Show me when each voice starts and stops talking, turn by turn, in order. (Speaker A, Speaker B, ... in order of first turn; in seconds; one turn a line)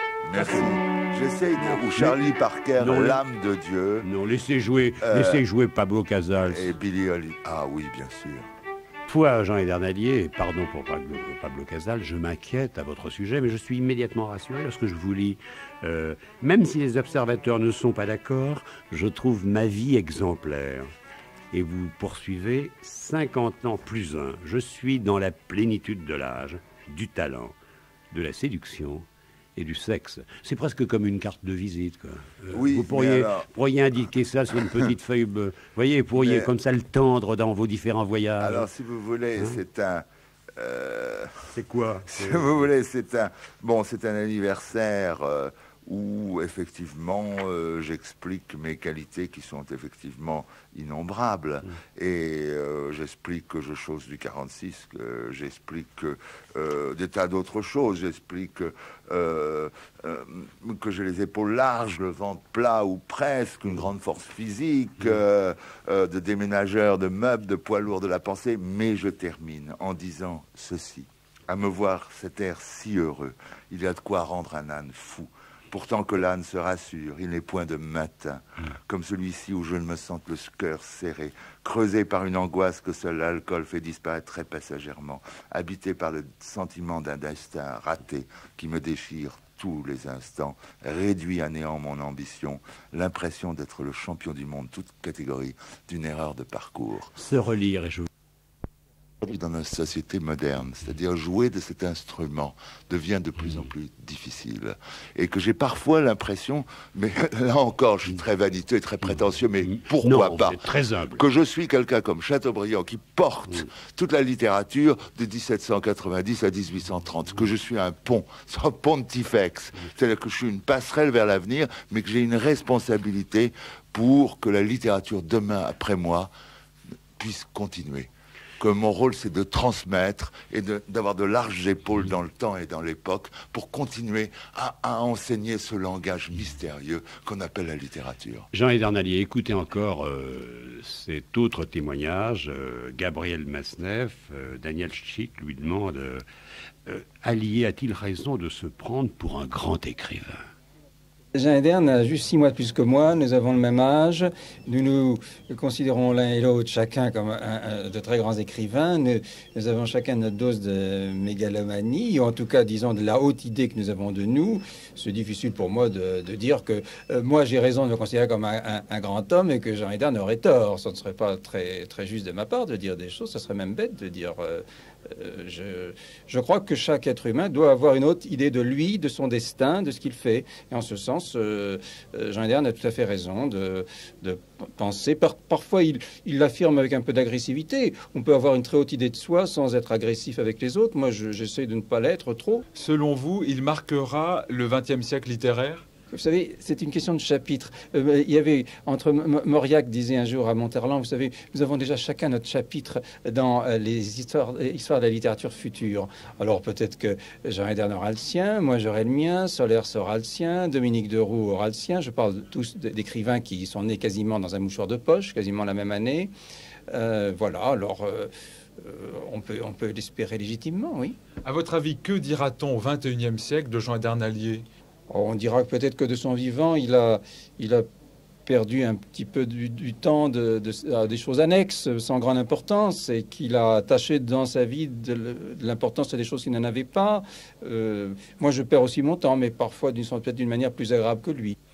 Speaker A: 0.2-4.1
Speaker B: 1.7-2.2
Speaker B: 2.8-3.2
Speaker B: 4.0-6.7
Speaker A: 5.0-5.4
Speaker A: 6.5-8.5
Speaker B: 9.1-20.9
Speaker B: 21.5-27.5
Speaker B: 28.1-29.1
Speaker B: 29.6-38.7
Speaker A: 32.5-33.5
Speaker A: 36.2-36.5
Speaker A: 38.4-40.0
Speaker A: 40.6-41.5
Speaker B: 41.5-42.5
Speaker A: 42.1-97.2
Speaker B: 97.2-98.1
Speaker A: 99.2-110.6
Speaker B: 109.7-111.2
Speaker A: 111.1-126.3
Speaker A: 127.2-128.1
Speaker A: 128.6-138.5
Speaker B: 138.5-146.2
Speaker B: 146.9-150.4
Speaker C: 151.3-192.7
Speaker D: 192.7-195.8
Speaker C: 196.1-216.3
Speaker C: 216.9-221.2
Speaker D: 221.4-224.7
Speaker C: 225.1-227.9
Speaker C: 228.5-241.6